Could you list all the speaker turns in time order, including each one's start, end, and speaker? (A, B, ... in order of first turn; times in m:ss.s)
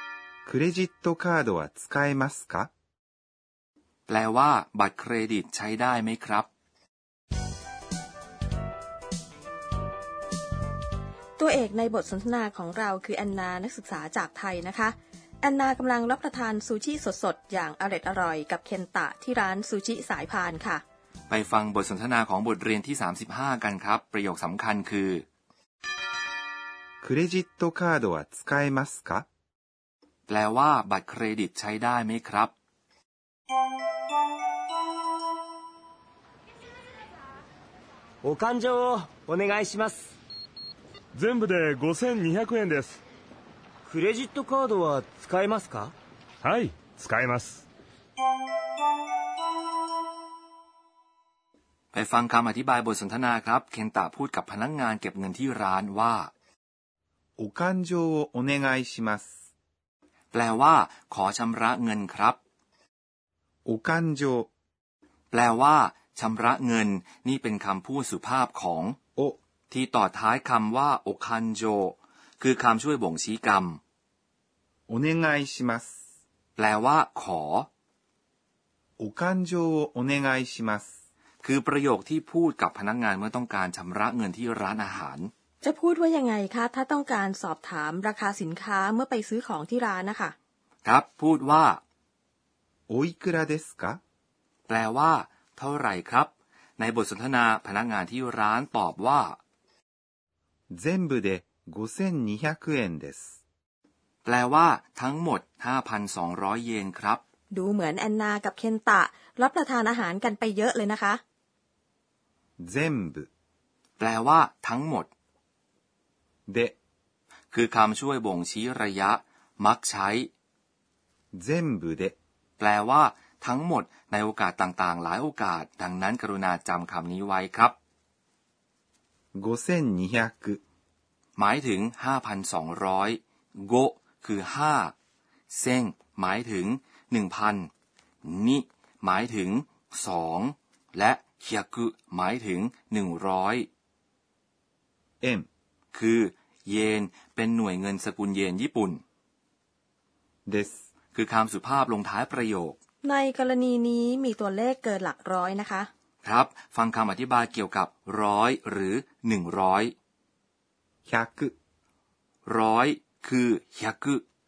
0:00.5-0:02.7 A
0:04.1-0:06.5 B
0:11.4-0:20.8 C
0:21.3-0:25.2 B
0:27.0-0:29.2 A
0:30.3-0:32.5 B
0:38.2-0:40.2 D
0:41.1-0:43.0 E
0:43.8-0:45.9 D
0:46.4-0:47.6 E
0:51.9-0:56.3 B
0:57.4-0:59.3 A
1:00.3-1:02.4 B
1:03.6-1:04.5 A
1:05.3-1:09.0 B
1:09.7-1:13.8 B
1:14.9-1:15.9 A
1:16.6-1:17.7 B
1:19.0-1:20.9 A
1:21.4-1:25.3 B
1:25.6-1:30.3 C
1:30.8-1:31.8 B
1:32.9-1:34.0 A
1:34.7-1:39.4 B
1:40.7-1:43.3 A
1:44.2-1:47.2 B
1:47.5-1:51.2 C
1:52.6-1:53.3 A
1:54.0-1:55.1 B
1:56.5-1:56.7 A
1:57.5-2:00.3 B
2:01.3-2:02.2 A
2:02.6-2:07.8 B
2:09.3-2:10.6 A
2:11.4-2:14.9 B
2:15.5-2:17.7 B
2:18.2-2:23.7 B
2:25.2-2:25.5 A
2:25.9-2:29.0 B
2:30.5-2:30.8 A
2:31.1-2:32.8 B
2:33.0-2:35.9 C
2:36.2-2:39.9 B
2:41.1-2:41.5 A
2:42.5-2:44.2 B